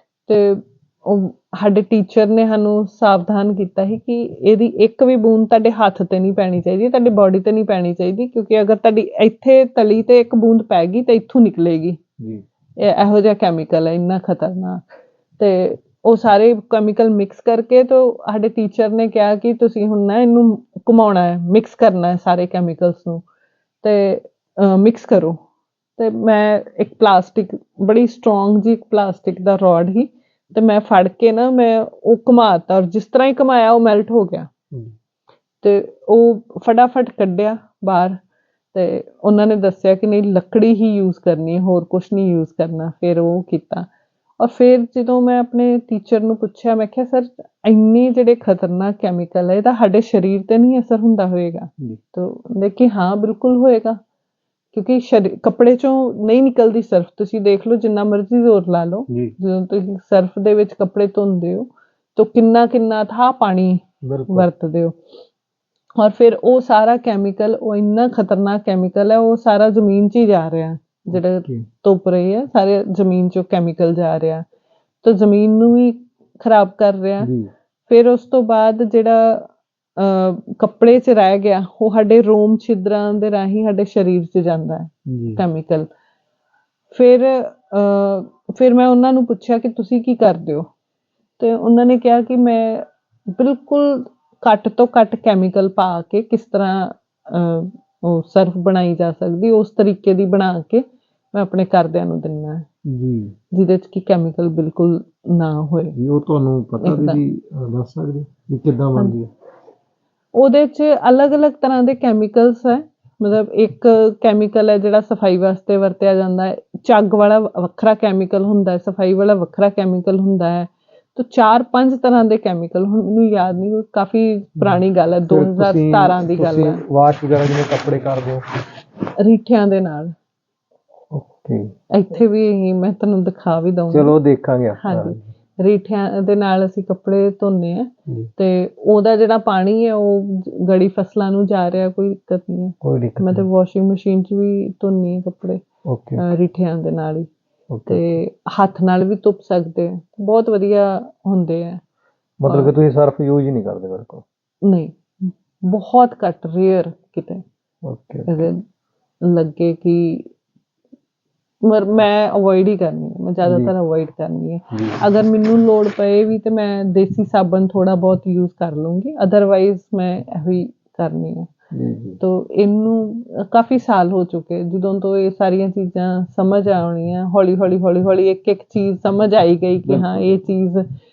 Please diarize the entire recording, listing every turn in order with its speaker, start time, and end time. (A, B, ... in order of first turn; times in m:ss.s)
0:00.3-0:12.0 A
0:12.8-0:14.9 A
0:15.4-0:23.2 A
0:23.8-0:25.4 A
0:26.0-0:34.5 A
0:35.6-0:38.2 A
0:38.7-0:43.9 A
0:44.4-0:54.0 A
0:54.7-1:05.0 A
0:59.1-0:59.4 B
1:04.0-1:04.5 B
1:06.0-1:14.4 A
1:11.1-1:11.7 B
1:15.0-1:17.3 A
1:17.2-1:17.5 B
1:17.9-1:25.9 A
1:25.1-1:25.4 B
1:26.9-1:30.7 A
1:31.4-1:42.7 A
1:42.9-1:43.3 B
1:43.5-1:46.0 A
1:46.0-1:49.3 B
1:46.8-1:47.2 A
1:50.4-2:06.8 A
2:04.6-2:08.4 B
2:09.2-2:10.1 A
2:11.1-2:11.7 B
2:11.9-2:14.1 A
2:13.9-2:15.3 B
2:14.8-2:25.6 A
2:22.8-2:23.5 B
2:25.9-2:26.2 B
2:26.2-2:27.3 A
2:27.7-2:28.1 B
2:27.9-2:31.8 A
2:32.4-2:34.2 B
2:32.5-2:32.7 A
2:34.6-2:37.4 A
2:37.8-2:38.5 B
2:38.3-2:38.6 A
2:39.2-2:40.3 A
2:41.6-2:51.5 A
2:43.4-2:43.7 B
2:44.7-2:45.0 B
2:51.7-2:52.2 B
2:52.2-3:00.9 A
2:59.9-3:00.4 B